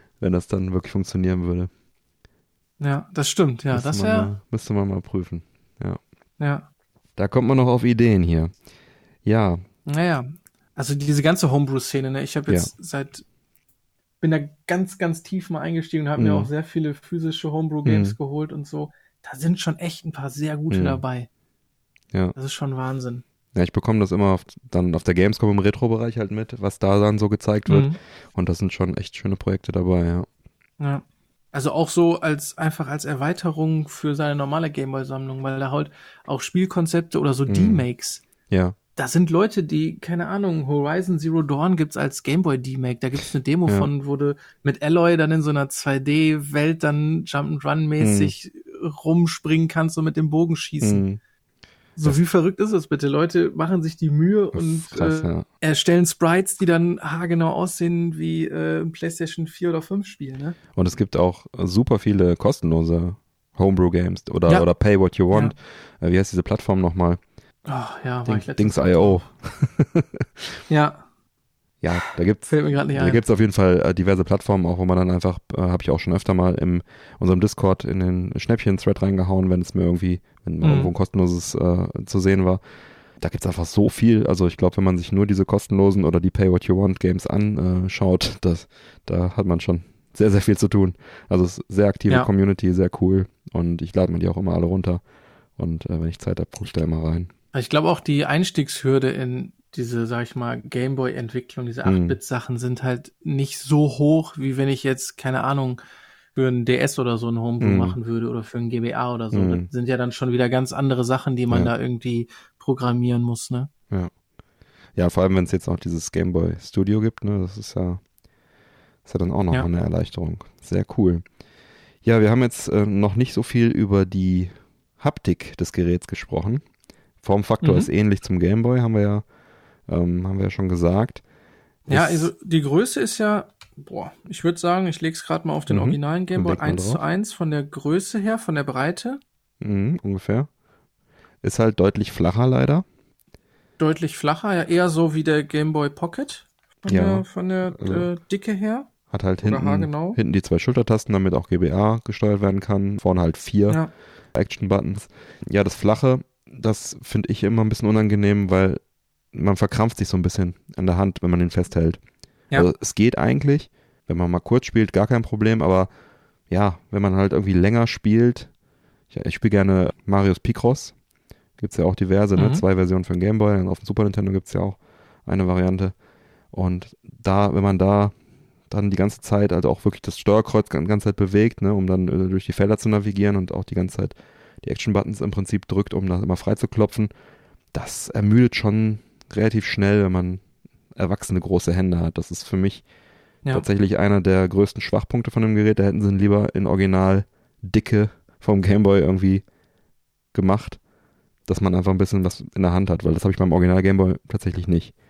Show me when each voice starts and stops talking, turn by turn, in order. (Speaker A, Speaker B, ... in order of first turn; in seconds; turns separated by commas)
Speaker A: 0.2-1.7, Speaker B: 2.8-4.3, Speaker A: 3.7-6.0, Speaker B: 6.4-6.7, Speaker A: 7.2-8.5, Speaker A: 9.2-9.6, Speaker B: 9.9-13.2, Speaker B: 14.2-21.3, Speaker A: 16.2-16.5, Speaker A: 17.9-18.2, Speaker A: 20.7-21.0, Speaker B: 22.4-23.2, Speaker A: 23.6-30.3, Speaker B: 27.7-28.0, Speaker B: 30.8-38.2, Speaker A: 37.5-37.9, Speaker A: 38.5-38.8, Speaker B: 39.0-51.0, Speaker A: 48.0-48.3, Speaker A: 50.8-51.2, Speaker B: 52.0-60.6, Speaker A: 54.5-55.5, Speaker A: 60.8-67.2, Speaker B: 67.7-69.3, Speaker A: 68.3-70.5, Speaker B: 70.7-71.0, Speaker A: 71.8-82.6, Speaker B: 72.5-73.2, Speaker B: 80.6-80.9, Speaker A: 83.2-95.0, Speaker A: 95.6-97.3, Speaker B: 97.5-105.8, Speaker A: 101.8-102.2, Speaker B: 106.3-113.7, Speaker A: 107.6-108.0, Speaker A: 109.3-109.7, Speaker A: 115.0-118.0, Speaker A: 119.0-121.2, Speaker A: 122.0-126.6, Speaker A: 127.2-129.2, Speaker B: 127.6-127.9, Speaker A: 129.9-131.2, Speaker A: 131.9-132.3, Speaker B: 131.9-139.2, Speaker A: 135.7-137.0, Speaker A: 139.6-140.5, Speaker A: 141.4-142.8, Speaker B: 143.8-148.9, Speaker A: 146.9-148.1, Speaker A: 149.1-153.8, Speaker B: 149.4-150.2, Speaker A: 154.3-158.8, Speaker A: 159.3-162.0, Speaker A: 162.6-165.9, Speaker A: 166.5-168.5, Speaker A: 169.1-170.9, Speaker A: 171.6-175.9, Speaker B: 172.4-172.6, Speaker A: 176.5-178.2, Speaker A: 178.7-187.1, Speaker A: 187.7-190.4, Speaker A: 190.9-192.8, Speaker A: 193.5-199.4, Speaker A: 200.3-200.8, Speaker A: 201.5-204.9